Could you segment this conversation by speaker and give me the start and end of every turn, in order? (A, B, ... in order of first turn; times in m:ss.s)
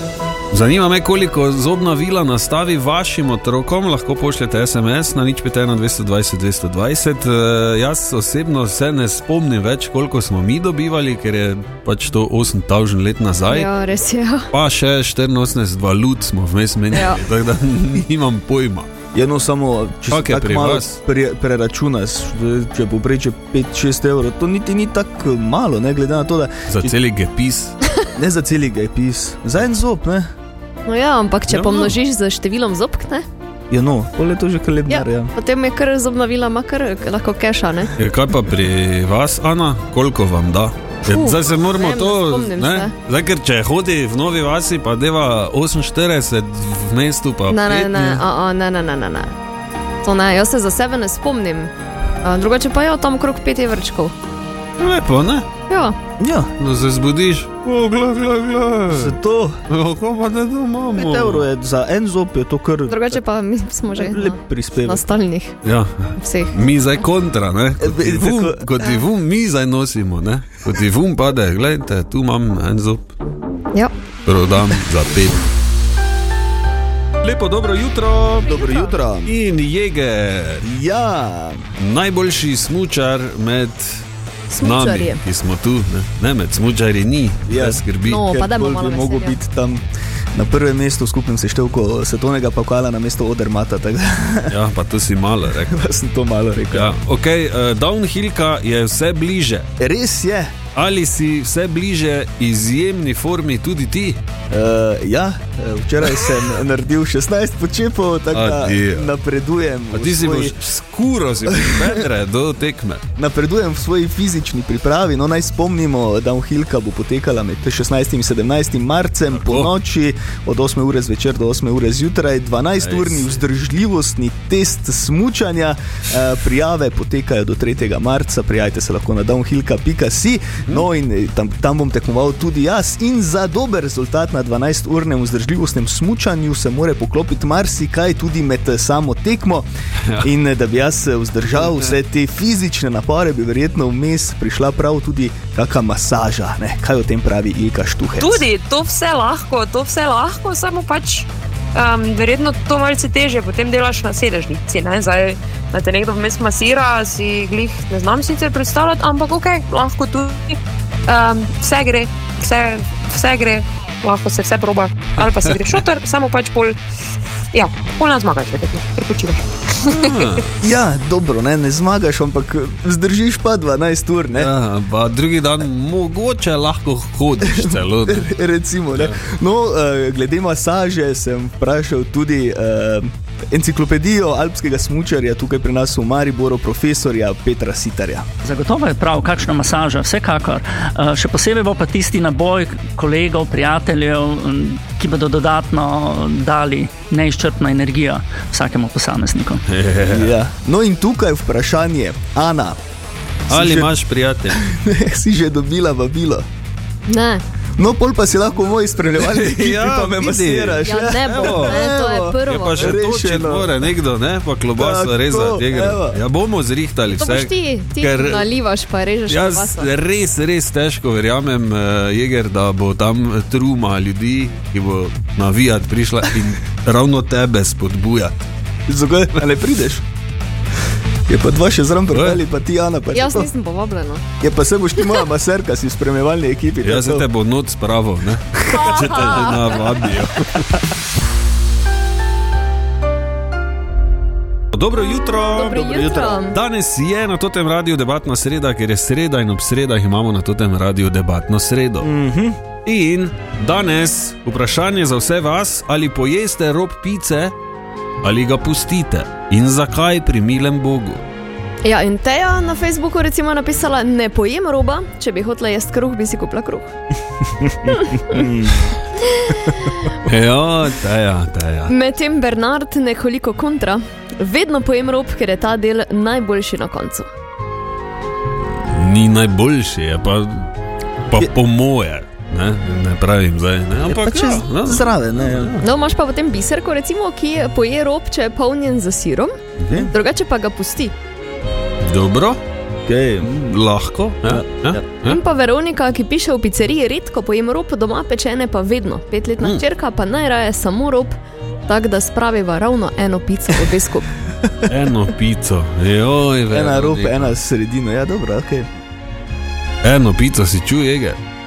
0:00.5-0:13.7 A
0:13.5-0:14.5 B
0:14.5-0:18.9 A
0:16.9-0:17.2 B
0:19.1-0:26.9 C
0:20.1-0:21.0 A
0:26.7-0:27.8 A
0:28.2-0:30.3 C
0:30.8-0:33.2 B
0:31.5-0:32.0 A
0:33.7-0:35.3 C
0:34.9-0:37.9 B
0:38.0-0:48.2 A
0:41.1-0:42.9 B
0:47.5-0:49.4 B
0:50.0-0:51.7 B
0:52.2-0:54.2 B
0:54.8-0:55.5 A
0:55.7-0:56.0 B
0:56.2-0:56.5 C
0:56.6-0:59.2 A
0:58.9-0:59.6 C
0:59.7-1:01.5 A
1:00.9-1:03.2 C
1:02.9-1:05.6 B
1:04.0-1:05.1 C
1:05.6-1:13.1 A
1:06.2-1:06.6 B
1:07.8-1:08.7 C
1:14.3-1:15.5 A
1:17.2-1:18.5 A
1:18.4-1:19.0 B
1:18.5-1:19.3 C
1:19.2-1:20.6 A
1:20.6-1:21.6 C
1:21.8-1:24.0 A
1:24.5-1:25.2 B
1:24.6-1:28.3 A
1:27.5-1:34.6 C
1:28.0-1:29.4 B
1:34.5-1:35.9 A
1:35.7-1:36.9 C
1:36.7-1:39.7 A
1:39.8-1:40.5 C
1:40.8-1:44.2 A
1:44.5-1:50.6 C
1:48.3-1:49.1 A
1:49.9-1:53.0 A
1:51.6-1:52.0 C
1:53.2-2:19.7 C
1:59.3-1:59.7 A
2:02.8-2:03.4 A
2:20.2-2:28.5 C
2:21.6-2:21.9 A
2:28.2-2:46.8 D
2:45.2-2:45.6 A
2:47.5-2:50.3 D
2:50.0-2:50.4 A
2:50.6-2:54.5 C
2:54.4-2:58.3 A
2:57.4-3:08.3 C
2:58.9-2:59.2 A
3:08.4-3:19.6 E
3:19.7-3:20.4 A
3:20.0-3:22.8 C
3:23.5-3:23.9 C
3:23.5-3:24.6 A
3:24.5-3:26.4 C
3:27.1-3:27.4 B
3:27.8-3:33.7 C
3:29.2-3:31.9 A
3:30.8-3:33.0 B
3:32.5-3:38.5 A
3:34.8-3:36.2 C
3:37.2-3:39.9 B
3:39.3-3:48.4 A
3:48.9-3:50.0 C
3:51.3-3:53.5 C
3:52.1-3:52.4 A
3:53.1-3:54.2 B
3:54.4-3:57.3 C
3:56.8-4:00.9 A
3:58.7-3:59.9 B
3:58.8-3:59.4 C
4:04.7-4:05.8 A
4:05.2-4:06.6 B
4:05.6-4:06.4 C
4:06.5-4:12.1 A
4:12.0-4:12.6 C
4:12.8-4:17.5 A
4:18.2-4:21.2 A
4:21.8-4:26.9 B
4:27.6-4:28.9 C
4:29.5-4:29.7 B
4:30.2-4:31.9 A
4:31.9-4:37.3 B
4:38.9-4:40.7 A
4:41.3-4:45.8 A
4:44.1-4:45.8 C
4:45.8-4:49.6 B
4:49.8-4:50.1 A
4:50.1-4:51.2 B
4:52.0-4:52.6 A
4:53.0-4:53.5 C
4:53.4-4:55.4 A
4:54.4-4:55.0 C
4:55.2-5:01.4 B
5:01.9-5:04.3 B
5:04.9-5:07.6 A
5:06.7-5:08.9 C
5:10.0-5:11.4 A